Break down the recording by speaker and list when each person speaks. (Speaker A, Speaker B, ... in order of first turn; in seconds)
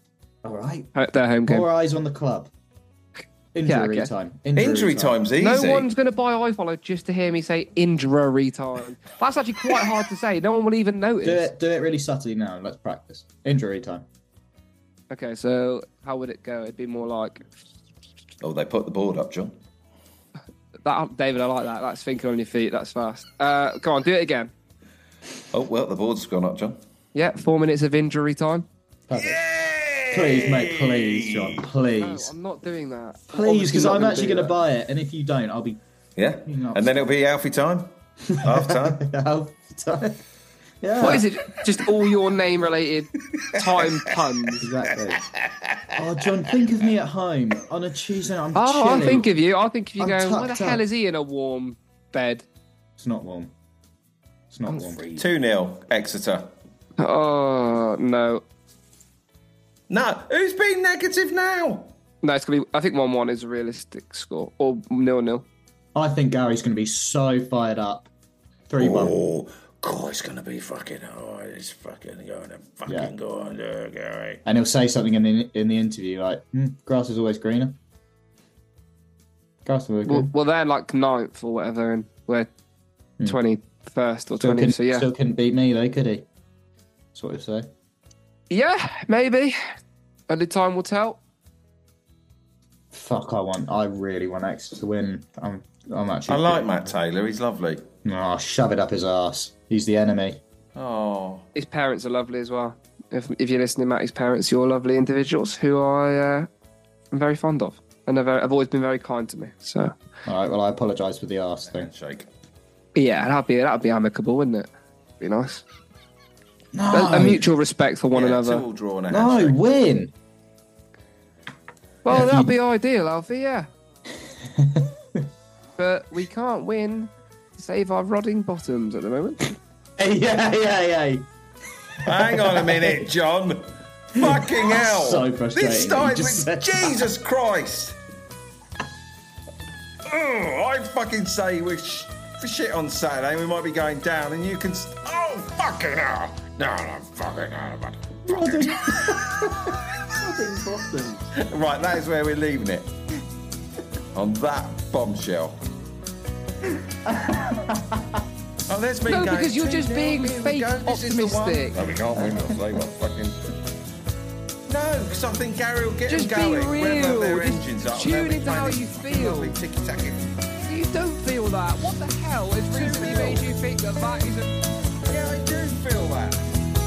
Speaker A: 0.4-0.9, 1.5-2.5, 3.5-5.2, 11.2-14.1, 29.1-29.4, 30.1-32.3, 33.3-35.8, 36.4-36.9, 38.2-40.2, 40.8-41.2, 44.6-45.2, 45.9-49.3, 50.0-50.8, 53.0-53.5, 54.5-55.0, 65.9-68.1, 68.7-69.2, 72.9-73.1, 74.4-77.8, 79.6-80.3, 84.4-86.2, 87.1-87.7, 92.9-96.9, 98.0-100.4, 110.2-111.9, 116.7-117.4, 119.1-120.1, 122.1-122.5, 124.2-125.2, 130.0-131.3, 132.0-133.1, 134.2-137.1, 148.2-151.3, 157.0-158.2, 162.2-162.6
Speaker B: 0.9-1.7, 3.6-4.1, 5.4-11.5, 15.1-17.4, 20.8-24.5, 27.1-28.7, 32.0-34.5, 41.0-44.6, 48.5-52.5, 54.7-55.0, 57.0-58.4, 62.2-65.4, 80.1-82.5, 83.2-85.1, 88.5-89.6, 90.3-91.2, 101.5-106.5, 107.1-109.9, 112.9-114.7, 115.2-115.6, 116.9-118.6, 122.0-123.7, 125.8-129.5, 159.1-161.8, 166.1-169.6, 170.7-174.6
Speaker C: 4.5-5.9, 18.4-19.5, 25.5-26.8, 29.1-31.6, 36.2-39.0, 43.3-43.9, 45.3-46.0, 55.1-56.5, 59.9-61.9, 68.8-74.4, 96.3-97.8, 100.7-101.5, 111.7-112.3, 118.1-119.6, 132.0-138.0, 140.1-149.7, 151.3-152.9, 154.1-155.6, 158.7-163.5, 164.7-170.3, 172.7-173.5, 175.0-176.6